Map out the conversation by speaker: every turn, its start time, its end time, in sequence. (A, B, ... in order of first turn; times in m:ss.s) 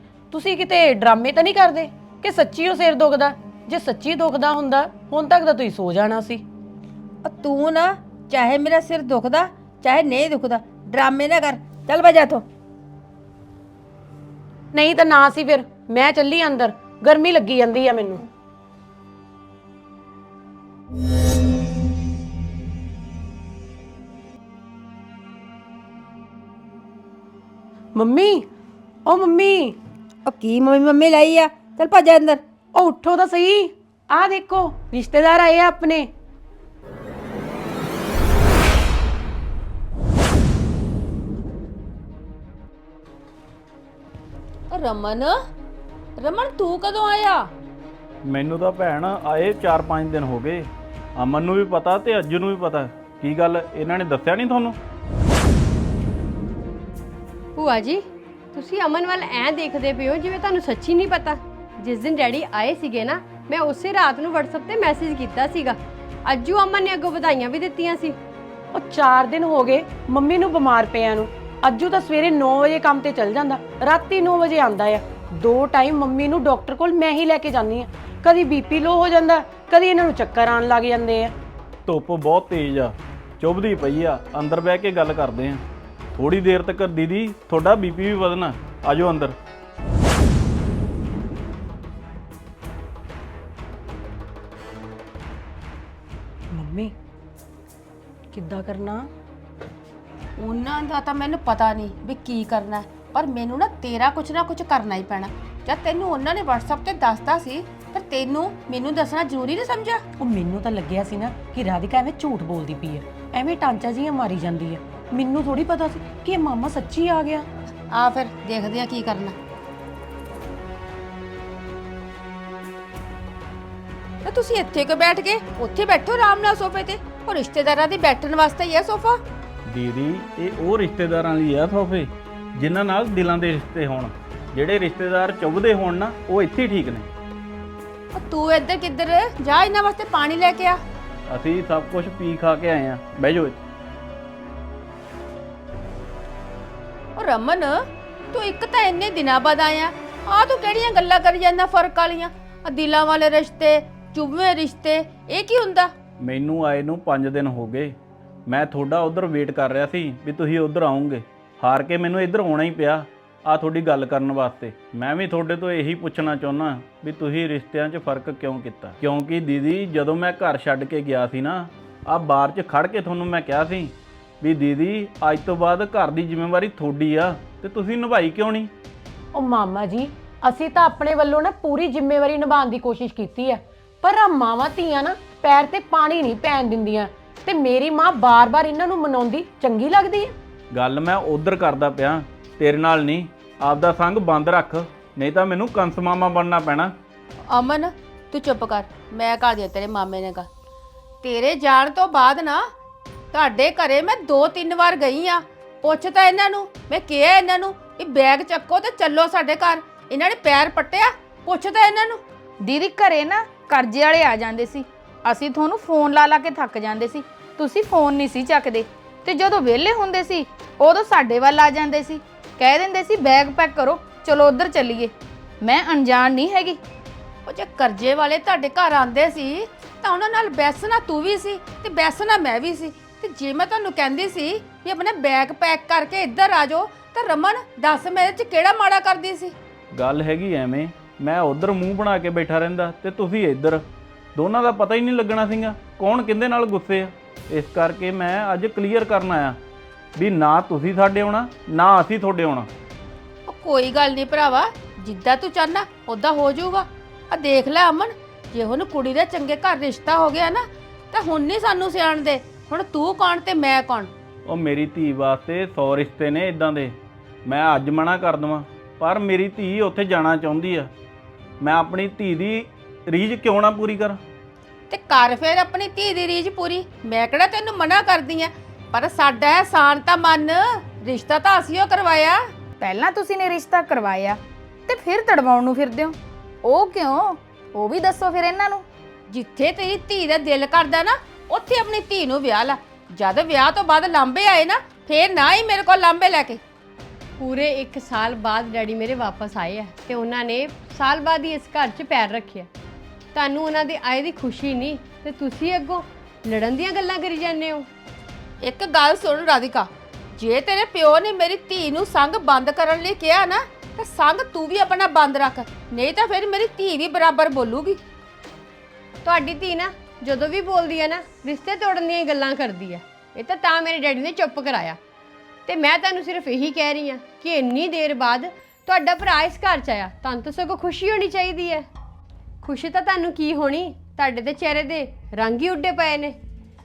0:00.3-0:06.4 A
0:07.2-0:12.4 B
0:14.8-0:18.2 A
0:28.0-0:28.4 A
0:29.1-0:29.7 A
0:30.2-0:32.4 B
0:32.8-0:33.6 A
0:34.2-0:36.0 A
0:44.7-0:45.3 B
0:46.2-0:47.5 B
0:48.2-0:54.8 C
0:57.5-1:08.2 D
1:08.8-1:21.3 A
1:21.8-1:29.3 C
1:36.6-1:36.9 A
1:38.3-1:39.0 A
1:40.4-1:50.0 B
1:50.2-1:57.4 A
1:57.9-1:59.3 B
2:04.2-2:09.2 B
2:09.7-2:17.1 C
2:18.1-2:20.8 B
2:21.3-2:23.6 C
2:27.2-2:27.8 B
2:28.3-2:35.9 B
2:36.2-2:37.9 C
2:38.5-2:58.7 C
2:59.3-3:10.3 A
3:10.7-3:16.9 C
3:17.5-3:20.5 B
3:21.2-3:22.6 B
3:23.3-3:32.2 B
3:32.6-3:46.8 E
3:47.5-3:59.5 B
3:59.9-4:03.8 C
4:04.4-4:09.6 C
4:10.2-4:12.7 C
4:13.5-4:24.1 B
4:24.4-4:30.9 C
4:31.6-4:34.2 C
4:34.9-4:42.4 B
4:42.8-4:48.8 E
4:49.3-4:56.6 B
4:57.4-5:02.7 D
5:03.3-5:07.9 D
5:08.6-5:18.0 B
5:19.2-5:25.0 D
5:25.6-5:31.8 D
5:32.6-5:36.4 D